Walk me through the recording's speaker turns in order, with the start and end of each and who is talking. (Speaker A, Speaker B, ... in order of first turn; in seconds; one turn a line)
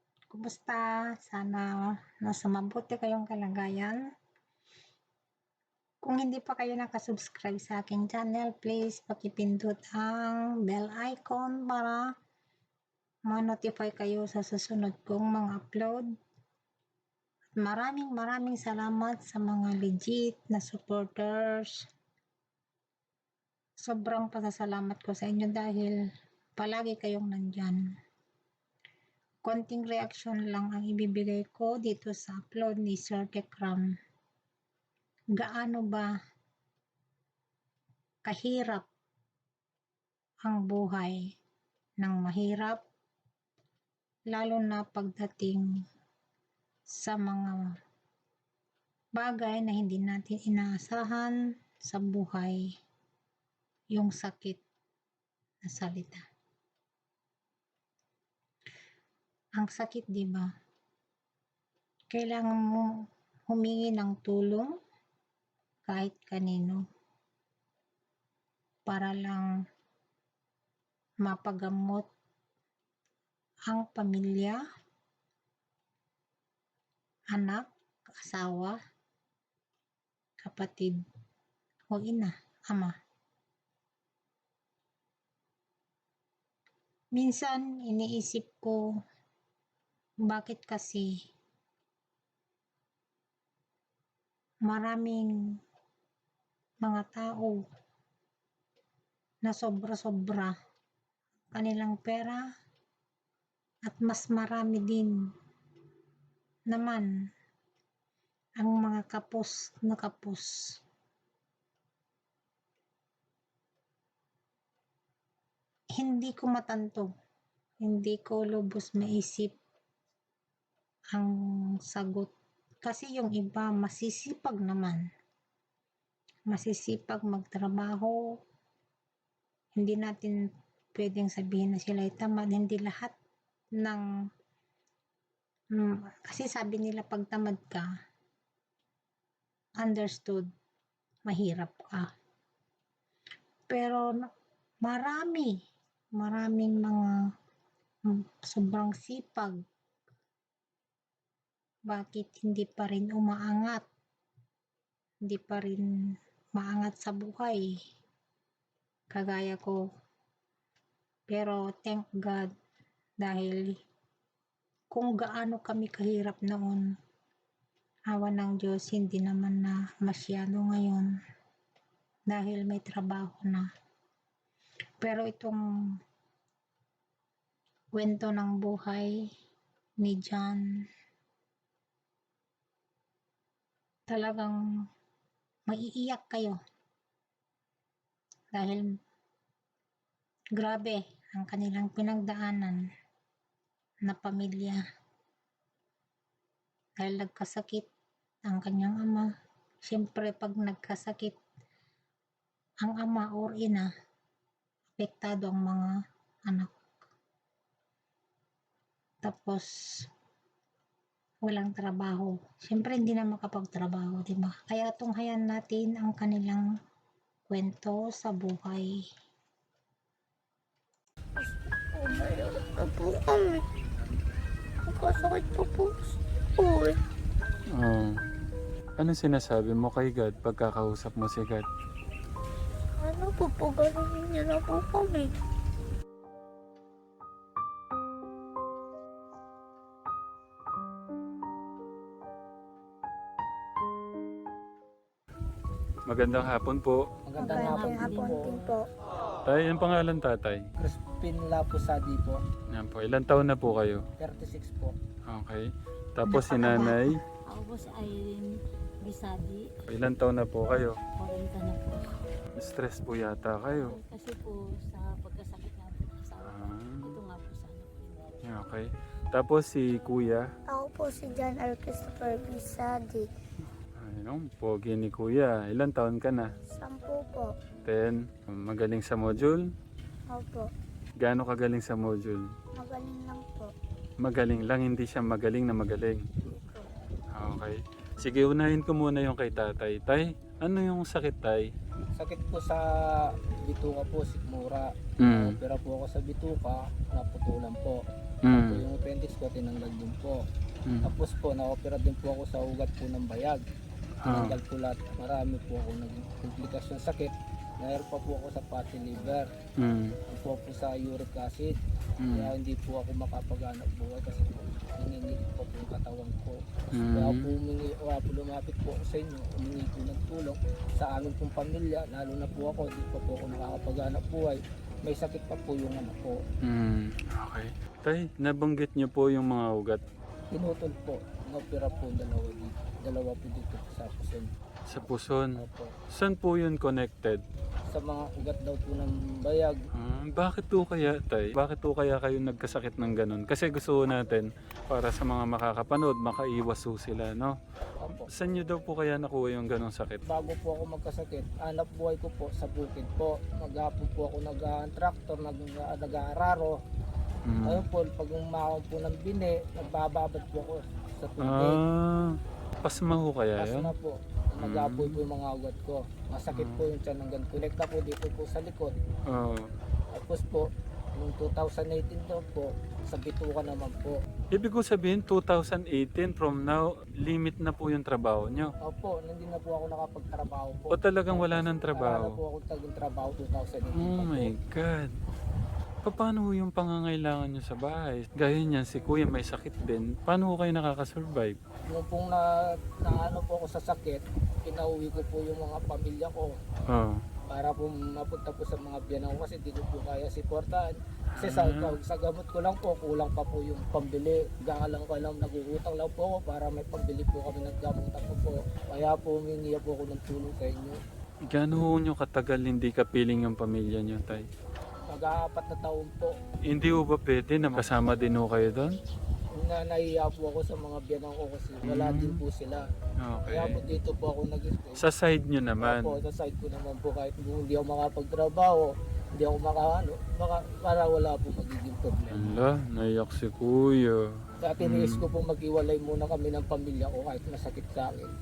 Speaker A: 0.3-4.0
Speaker A: 6.0-12.1
Speaker A: 13.3-16.1
Speaker A: 17.6-21.9
Speaker A: 23.8-27.9
Speaker A: 29.4-34.0
Speaker A: 35.4-36.1
Speaker A: 38.2-38.9
Speaker A: 40.4-41.3
Speaker A: 42.0-42.8
Speaker A: 44.3-45.7
Speaker A: 47.0-47.8
Speaker A: 49.1-52.7
Speaker A: 53.9-54.6
Speaker A: 55.6-56.2
Speaker A: 59.6-60.5
Speaker A: 62.1-64.8
Speaker A: 65.8-66.8
Speaker A: 68.8-69.5
Speaker A: 71.2-72.0
Speaker A: 73.7-74.6
Speaker A: 77.3-78.8
Speaker A: 80.4-81.0
Speaker A: 81.9-82.9
Speaker A: 87.1-88.8
Speaker A: 90.3-91.2
Speaker A: 94.7-95.6
Speaker A: 96.8-97.6
Speaker A: 99.4-100.5
Speaker A: 101.5-102.5
Speaker A: 103.8-105.3
Speaker A: 106.7-107.1
Speaker A: 108.6-110.8
Speaker A: 116.0-117.1
Speaker A: 117.8-119.5
Speaker A: 121.1-122.3
Speaker A: 122.8-125.0
Speaker A: 126.5-128.2
Speaker A: 129.8-133.1
Speaker A: 135.8-137.9
Speaker A: 139.8-140.5
Speaker A: 141.2-142.1
Speaker A: 143.7-144.3
Speaker A: 144.8-145.6
Speaker A: 146.2-147.3
Speaker A: 148.1-149.6
Speaker A: 151.9-153.8
Speaker A: 155.2-155.9
Speaker A: 156.6-157.8
Speaker A: 159.1-159.8
Speaker A: 161.3-162.5
Speaker A: 163.2-163.8
Speaker A: 164.9-166.9
Speaker A: 168.1-171.1
Speaker A: 172.3-173.7
Speaker A: 175.0-176.0
Speaker A: 177.9-179.2
Speaker A: 180.0-180.8
Speaker A: 184.1-184.6
Speaker A: 185.7-186.6
Speaker A: 188.5-188.9
Speaker A: 190.6-192.8
Speaker A: 194.0-194.8
Speaker A: 197.0-197.9
Speaker A: 198.4-199.3
Speaker A: 199.8-201.4
Speaker A: 202.8-203.9
Speaker A: 204.9-205.9
Speaker A: 206.5-206.7
Speaker A: 209.2-210.1
Speaker A: 211.4-216.7
Speaker A: 217.5-219.0
Speaker B: 221.4-223.6
Speaker B: 224.8-227.0
Speaker C: 227.7-228.1
Speaker C: 229.0-231.7
Speaker B: 233.0-235.3
Speaker C: 246.1-247.0
Speaker D: 247.2-248.6
Speaker B: 247.4-248.8
Speaker E: 247.5-248.4
Speaker C: 249.4-250.6
Speaker D: 250.8-252.4
Speaker C: 252.7-254.0
Speaker D: 254.2-254.9
Speaker C: 255.3-257.2
Speaker B: 256.5-256.9
Speaker E: 257.5-259.6
Speaker C: 259.9-260.9
Speaker E: 261.2-262.2
Speaker C: 262.6-263.9
Speaker E: 263.8-268.2
Speaker C: 266.4-267.1
Speaker C: 268.4-270.4
Speaker B: 270.7-273.3
Speaker C: 274.0-276.5
Speaker B: 276.7-277.5
Speaker C: 277.9-279.6
Speaker B: 280.3-280.7
Speaker C: 281.2-282.5
Speaker B: 282.8-283.7
Speaker C: 284.2-286.2
Speaker B: 286.5-286.9
Speaker C: 287.3-291.7
Speaker D: 292.1-298.0
Speaker C: 295.2-295.5
Speaker C: 298.4-298.8
Speaker D: 298.5-300.4
Speaker D: 301.0-303.6
Speaker C: 304.2-304.6
Speaker D: 304.2-309.5
Speaker C: 309.8-310.2
Speaker D: 310.3-311.8
Speaker C: 312.2-312.5
Speaker D: 312.3-326.4
Speaker C: 316.9-317.5
Speaker C: 326.6-330.0
Speaker D: 330.5-334.5
Speaker C: 334.9-335.6
Speaker D: 335.6-335.9
Speaker C: 336.1-337.4
Speaker D: 337.9-339.8
Speaker C: 339.9-347.5
Speaker D: 348.0-348.3
Speaker C: 348.3-350.2
Speaker D: 350.2-356.8
Speaker C: 357.4-357.8
Speaker D: 357.6-361.8
Speaker C: 361.4-363.9
Speaker D: 363.6-368.9
Speaker C: 364.6-365.2
Speaker C: 366.5-366.9
Speaker C: 369.3-369.7
Speaker D: 370.1-374.2
Speaker C: 374.5-378.7
Speaker D: 378.8-384.5
Speaker C: 380.9-382.4
Speaker C: 383.9-385.1
Speaker C: 386.0-391.6
Speaker D: 391.9-396.5
Speaker C: 396.9-397.2
Speaker D: 397.5-411.0
Speaker C: 401.3-401.9
Speaker C: 411.5-414.4
Speaker D: 415.1-416.4
Speaker C: 416.6-418.9
Speaker D: 419.5-422.9
Speaker C: 421.8-422.4
Speaker C: 423.2-423.8
Speaker D: 423.5-425.0
Speaker C: 424.9-426.2
Speaker D: 425.8-432.6
Speaker C: 432.3-434.2
Speaker D: 434.6-438.3
Speaker C: 434.8-435.2